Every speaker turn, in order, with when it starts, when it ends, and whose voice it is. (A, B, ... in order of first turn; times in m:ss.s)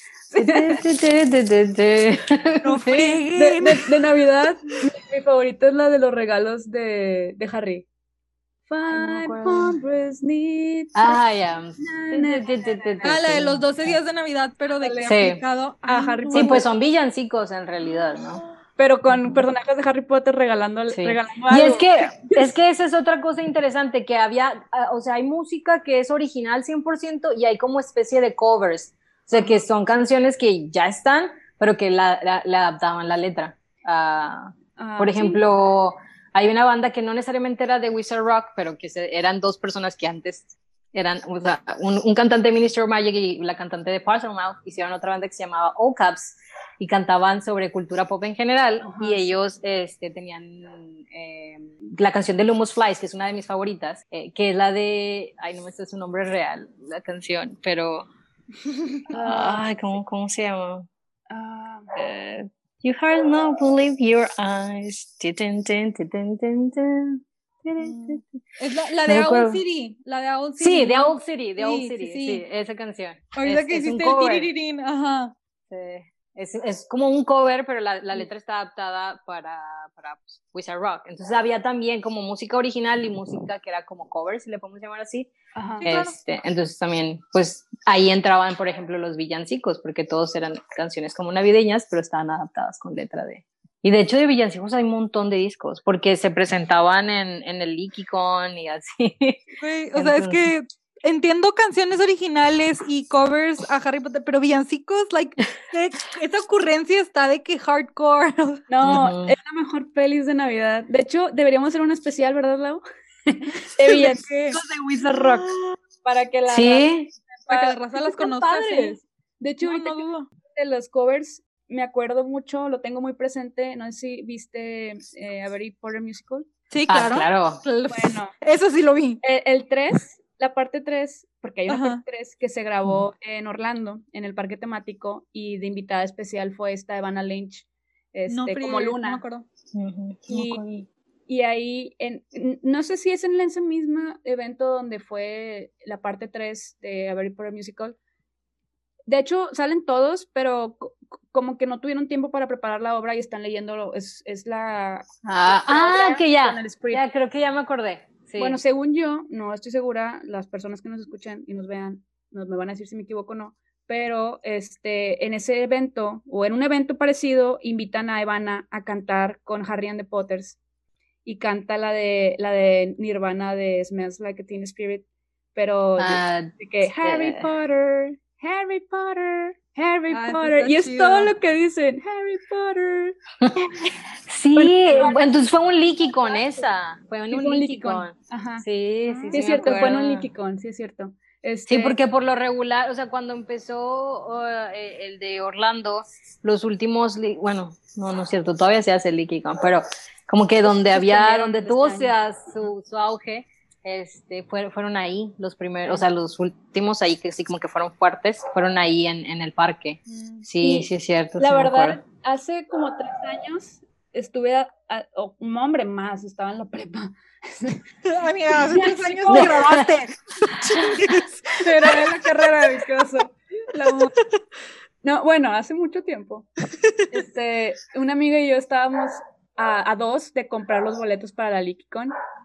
0:00.3-0:00.8 A
0:00.3-0:03.2 B
0:02.6-0:03.8 C
0:03.3-0:07.8 A
0:08.7-0:11.2 A
0:08.9-0:09.8 B
0:10.9-0:14.0 B
0:11.8-0:13.1 A
0:13.0-0:16.6 C
0:14.8-0:15.2 A
0:15.0-0:15.4 B
0:15.9-0:16.6 A
0:16.3-0:18.4 B
0:18.8-0:22.4 A
0:19.1-0:19.4 B
0:20.9-0:58.1 B
0:34.8-0:35.4 A
0:48.8-0:49.4 A
0:59.1-1:00.9 B
0:59.1-0:59.6 A
1:01.3-1:01.9 A
1:01.9-1:08.2 B
1:07.8-1:12.4 C
1:09.0-1:09.6 B
1:10.6-1:14.5 B
1:13.4-1:15.3 C
1:15.7-1:25.3 B
1:25.6-1:25.9 A
1:25.8-1:26.2 C
1:25.8-1:40.5 B
1:39.6-1:48.6 C
1:48.7-1:56.9 A
1:48.8-1:49.4 B
1:53.8-1:55.8 C
1:56.5-1:57.1 B
1:57.5-1:59.0 C
1:57.5-2:06.5 A
1:59.6-2:00.3 C
2:06.7-2:09.2 C
2:06.9-2:07.6 B
2:07.9-2:08.3 A
2:09.2-2:19.2 A
2:11.7-2:12.0 C
2:18.3-2:19.5 C
2:19.7-2:20.9 B
2:20.3-2:20.6 A
2:21.3-2:28.0 A
2:29.1-2:37.0 A
2:35.2-2:38.6 B
2:38.4-2:50.6 A
2:51.2-3:03.2 A
2:56.0-2:57.5 B
3:00.1-3:01.3 C
3:03.4-3:03.7 B
3:04.3-3:10.3 B
3:04.5-3:05.3 A
3:07.3-3:08.6 A
3:09.1-3:09.7 C
3:09.3-3:12.0 A
3:11.7-3:32.0 B
3:20.6-3:22.7 A
3:30.1-3:30.4 C
3:30.6-3:30.9 A
3:31.4-3:37.8 A
3:38.0-3:41.3 C
3:38.6-3:39.6 A
3:39.3-3:39.9 B
3:41.6-3:44.1 A
3:43.9-3:44.2 C
3:45.0-3:46.5 A
3:47.1-3:52.1 A